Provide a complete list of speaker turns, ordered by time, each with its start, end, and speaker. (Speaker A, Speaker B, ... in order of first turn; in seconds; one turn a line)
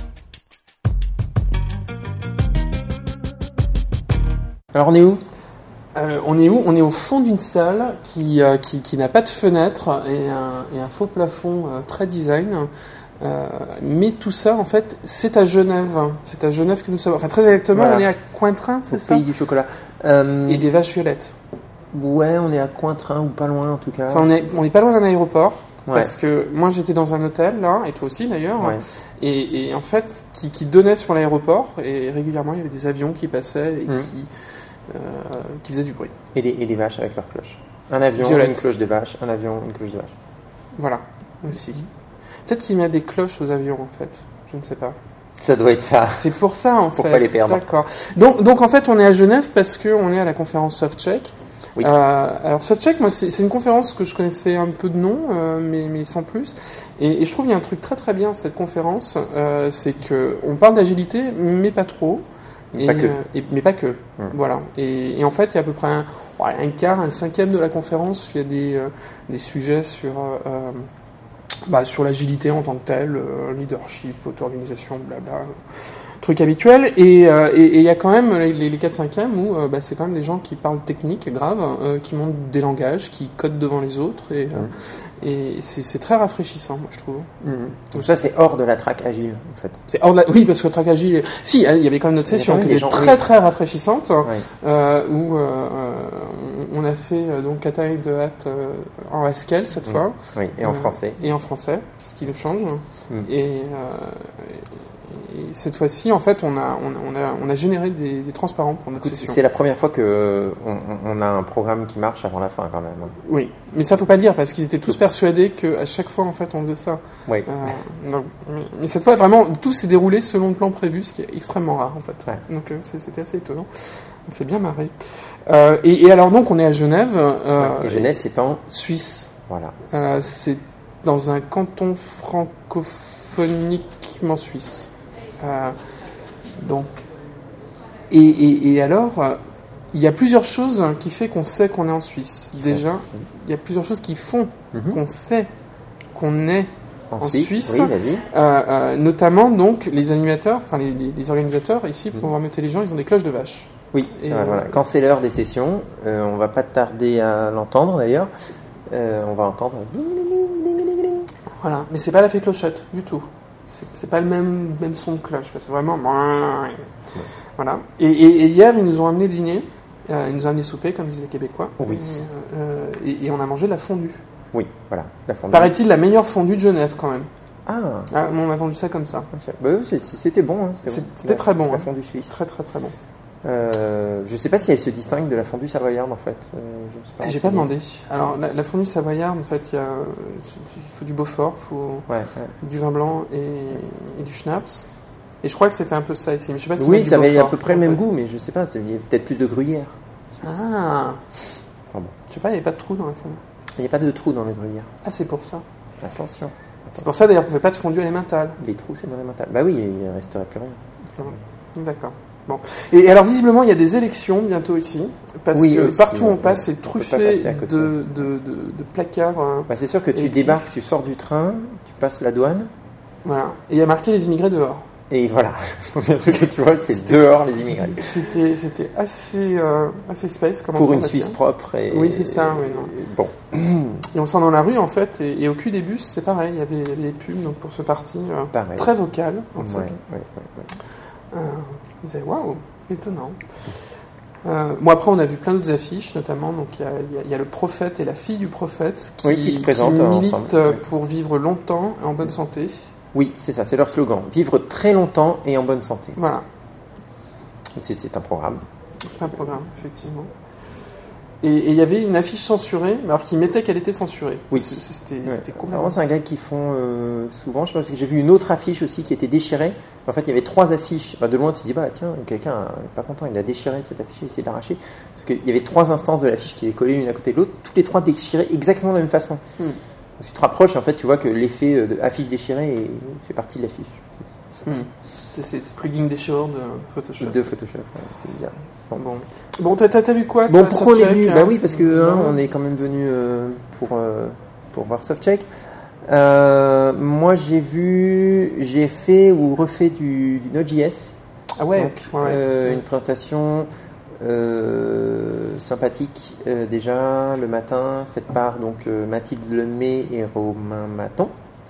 Speaker A: 4.7-5.2
Speaker B: 5.9-19.2
Speaker A: 17.7-18.1
Speaker A: 18.9-20.7
Speaker B: 20.5-21.3
Speaker A: 21.9-24.3
Speaker B: 24.1-34.3
Speaker A: 25.9-26.1
Speaker B: 34.9-36.1
Speaker A: 36.3-40.1
Speaker B: 38.2-38.6
Speaker B: 40.8-41.9
Speaker B: 42.5-45.0
Speaker A: 45.4-46.4
Speaker B: 46.1-70.9
Speaker A: 46.9-47.7
Speaker A: 62.8-63.2
Speaker B: 71.7-87.3
Speaker A: 87.4-89.8
Speaker B: 89.9-109.4
Speaker A: 92.3-93.2
Speaker A: 99.9-101.2
Speaker A: 109.0-113.2
Speaker B: 113.2-128.1
Speaker A: 117.3-117.7
Speaker A: 127.6-128.6
Speaker B: 128.7-129.3
Speaker A: 129.5-129.7
Speaker B: 129.9-135.8
Speaker B: 136.5-137.0
Speaker B: 138.1-139.4
Speaker B: 139.9-145.5
Speaker A: 144.7-145.0
Speaker B: 146.1-154.8
Speaker A: 147.1-148.2
Speaker A: 153.9-158.3
Speaker A: 158.9-161.3
Speaker B: 161.6-166.9
Speaker B: 167.6-174.2
Speaker A: 171.8-172.2
Speaker A: 174.5-175.7
Speaker B: 175.5-177.3
Speaker A: 177.7-178.1
Speaker B: 178.1-179.3
Speaker A: 179.3-182.4
Speaker B: 180.8-182.9
Speaker A: 183.4-187.7
Speaker B: 187.2-192.1
Speaker A: 192.1-192.5
Speaker B: 192.6-194.8
Speaker B: 195.4-198.0
Speaker A: 196.8-200.6
Speaker B: 200.4-201.3
Speaker B: 202.3-203.4
Speaker A: 203.8-204.9
Speaker B: 205.0-205.6
Speaker A: 206.0-207.1
Speaker B: 207.0-208.6
Speaker A: 208.6-210.8
Speaker B: 211.2-220.7
Speaker A: 215.5-218.0
Speaker A: 219.7-222.7
Speaker B: 223.2-224.9
Speaker A: 225.1-228.3
Speaker B: 228.0-231.4
Speaker A: 230.7-234.1
Speaker B: 231.9-232.9
Speaker B: 234.1-239.9
Speaker A: 238.5-238.9
Speaker A: 239.6-240.7
Speaker B: 241.3-243.4
Speaker B: 244.4-252.8
Speaker A: 249.2-250.8
Speaker A: 253.1-256.2
Speaker B: 256.1-256.4
Speaker A: 257.7-258.6
Speaker B: 259.0-260.3
Speaker B: 261.4-265.9
Speaker A: 264.5-279.4
Speaker A: 280.2-284.1
Speaker B: 284.6-287.4
Speaker A: 287.2-289.0
Speaker B: 288.9-292.4
Speaker A: 290.5-295.5
Speaker A: 296.0-301.1
Speaker B: 301.6-302.4
Speaker A: 301.8-303.7
Speaker A: 304.2-311.3